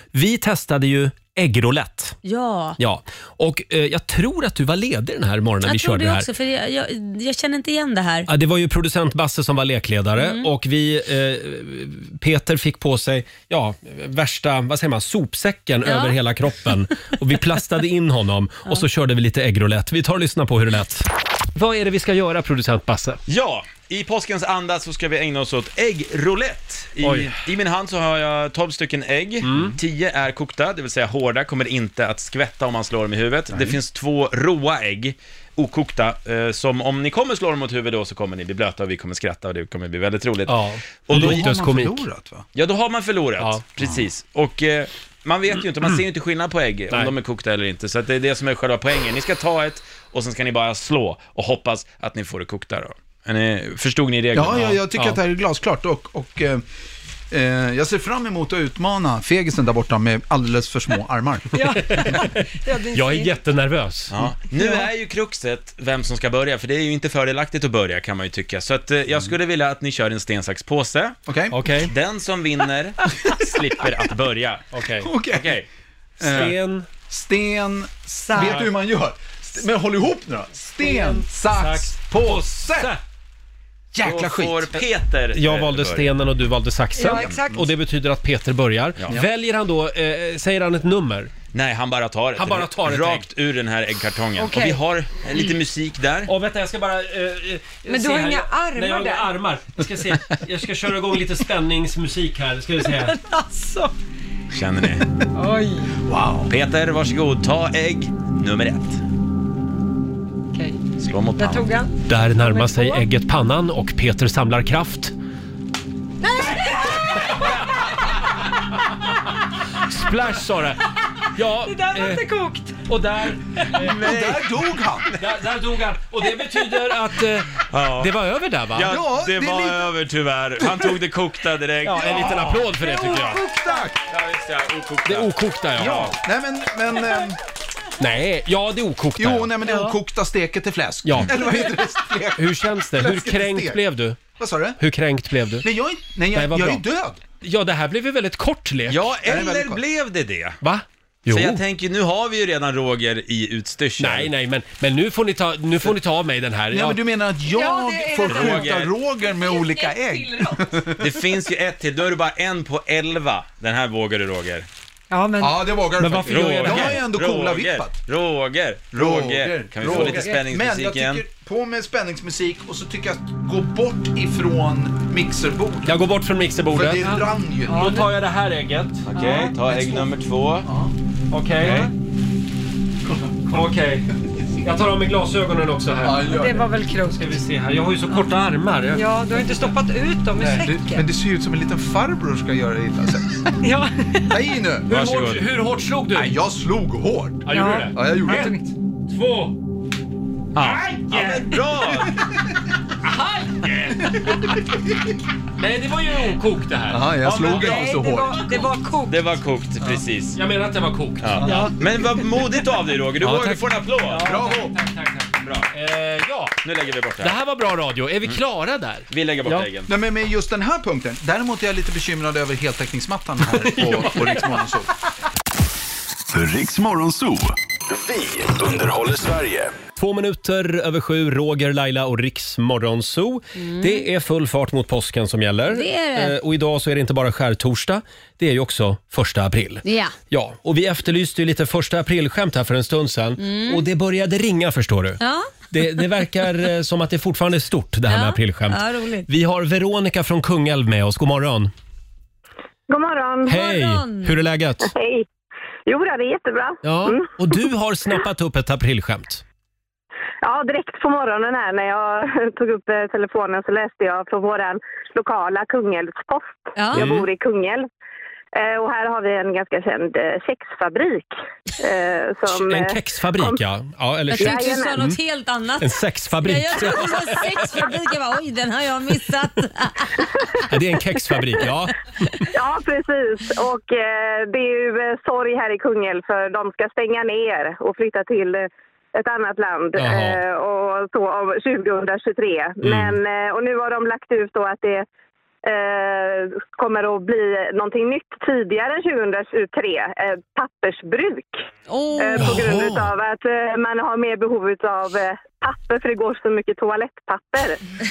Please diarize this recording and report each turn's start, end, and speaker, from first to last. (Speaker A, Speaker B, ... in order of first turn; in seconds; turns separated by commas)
Speaker A: 0.1-2.2, Speaker B: 2.2-2.8, Speaker A: 2.8-6.3, Speaker B: 5.6-8.3, Speaker A: 8.3-23.2, Speaker B: 10.2-10.5, Speaker B: 15.8-16.2, Speaker C: 23.3-41.5, Speaker A: 27.0-27.3, Speaker A: 29.4-29.8, Speaker A: 40.5-42.0, Speaker D: 41.1-42.5, Speaker C: 42.5-54.8, Speaker D: 54.4-56.6, Speaker D: 57.3-62.0, Speaker E: 61.5-63.3, Speaker A: 61.8-64.2, Speaker C: 64.1-71.2, Speaker D: 71.3-71.6, Speaker A: 71.5-71.9, Speaker C: 71.8-74.7, Speaker A: 74.7-75.1, Speaker D: 75.0-75.6, Speaker C: 75.3-75.7, Speaker D: 76.2-76.6, Speaker A: 76.2-76.9, Speaker D: 77.1-82.9, Speaker E: 78.3-78.7, Speaker A: 78.3-78.7, Speaker A: 80.8-83.0, Speaker D: 83.9-84.7, Speaker C: 84.0-86.1, Speaker A: 85.3-91.3, Speaker E: 87.0-87.6, Speaker C: 91.5-96.3, Speaker A: 92.4-93.3, Speaker E: 94.4-94.8, Speaker A: 96.3-103.2, Speaker E: 97.9-99.3, Speaker E: 102.8-103.9, Speaker C: 104.5-105.1, Speaker E: 105.3-105.9, Speaker D: 106.1-106.5, Speaker C: 106.5-109.0, Speaker C: 111.0-111.7, Speaker E: 111.4-113.0, Speaker A: 112.1-115.2, Speaker E: 116.2-117.4, Speaker A: 117.3-117.7, Speaker A: 119.8-120.8, Speaker A: 121.3-122.3, Speaker E: 121.7-122.8, Speaker A: 122.9-124.5, Speaker D: 123.8-125.1, Speaker A: 125.1-128.9, Speaker C: 127.7-128.1, Speaker C: 128.7-132.6, Speaker D: 128.8-129.9, Speaker D: 130.6-131.0, Speaker A: 131.8-133.4, Speaker D: 131.9-134.0, Speaker C: 134.1-136.1, Speaker A: 135.1-136.2, Speaker D: 135.8-137.4, Speaker A: 138.0-139.9, Speaker D: 139.2-143.8, Speaker A: 141.0-141.8, Speaker A: 142.3-144.2, Speaker D: 144.4-144.8, Speaker A: 144.8-145.7, Speaker D: 145.6-147.2, Speaker A: 146.3-146.8, Speaker A: 147.4-149.1, Speaker C: 148.9-150.6, Speaker D: 149.2-149.8, Speaker A: 150.6-151.6, Speaker C: 151.3-154.3, Speaker A: 154.0-157.0, Speaker D: 156.7-161.1, Speaker E: 157.5-158.7, Speaker C: 158.3-158.9, Speaker E: 159.2-160.8, Speaker C: 161.0-164.7, Speaker E: 165.1-166.2, Speaker D: 165.4-167.9, Speaker A: 166.2-167.0, Speaker C: 166.3-171.2, Speaker D: 168.9-175.9, Speaker A: 175.8-179.1, Speaker D: 176.7-178.0, Speaker E: 177.7-178.1, Speaker C: 179.1-180.7, Speaker E: 179.2-179.5, Speaker D: 179.7-180.1, Speaker D: 180.7-180.9, Speaker A: 181.3-181.9, Speaker C: 181.6-181.9, Speaker A: 183.5-184.1, Speaker A: 184.6-186.6, Speaker D: 186.0-186.7, Speaker E: 186.3-187.4, Speaker A: 187.1-189.7, Speaker E: 188.9-191.1, Speaker A: 190.4-190.7, Speaker D: 190.5-193.5, Speaker E: 193.6-194.3, Speaker D: 194.3-195.0, Speaker A: 194.9-196.4, Speaker C: 194.9-195.4, Speaker D: 196.1-198.6, Speaker A: 197.5-199.6, Speaker E: 197.5-198.6, Speaker C: 200.6-202.2, Speaker A: 200.6-201.5, Speaker A: 203.0-204.5, Speaker A: 205.6-207.5, Speaker D: 206.9-208.5, Speaker C: 207.2-208.0, Speaker E: 207.4-209.2, Speaker C: 209.1-210.4, Speaker A: 210.3-211.7, Speaker C: 211.2-214.3, Speaker D: 211.4-211.7, Speaker A: 213.2-216.6, Speaker D: 214.1-214.7, Speaker C: 215.4-215.7, Speaker C: 216.6-217.4, Speaker A: 217.2-219.7, Speaker C: 219.1-219.9, Speaker D: 219.9-224.9, Speaker A: 223.5-224.7, Speaker F: 226.3-229.8, Speaker A: 230.0-245.2, Speaker B: 233.6-234.0, Speaker B: 235.7-236.4, Speaker B: 239.8-240.2, Speaker B: 243.4-243.8, Speaker B: 245.2-245.5, Speaker A: 245.7-251.7, Speaker B: 248.1-249.3, Speaker G: 252.9-253.6, Speaker A: 253.5-254.9, Speaker B: 253.5-254.3, Speaker G: 254.8-255.3, Speaker G: 255.9-257.3, Speaker A: 256.8-259.4, Speaker G: 260.4-267.9, Speaker B: 266.8-267.1, Speaker A: 266.9-267.3, Speaker G: 268.5-271.3, Speaker G: 271.8-273.6, Speaker A: 272.5-275.2, Speaker B: 274.3-280.3, Speaker G: 274.4-275.0, Speaker A: 275.8-277.6, Speaker A: 280.7-282.5, Speaker G: 282.5-295.1, Speaker A: 290.0-290.4, Speaker A: 292.8-293.2, Speaker G: 295.6-301.6, Speaker B: 301.9-302.6, Speaker G: 302.2-307.8, Speaker A: 302.4-303.1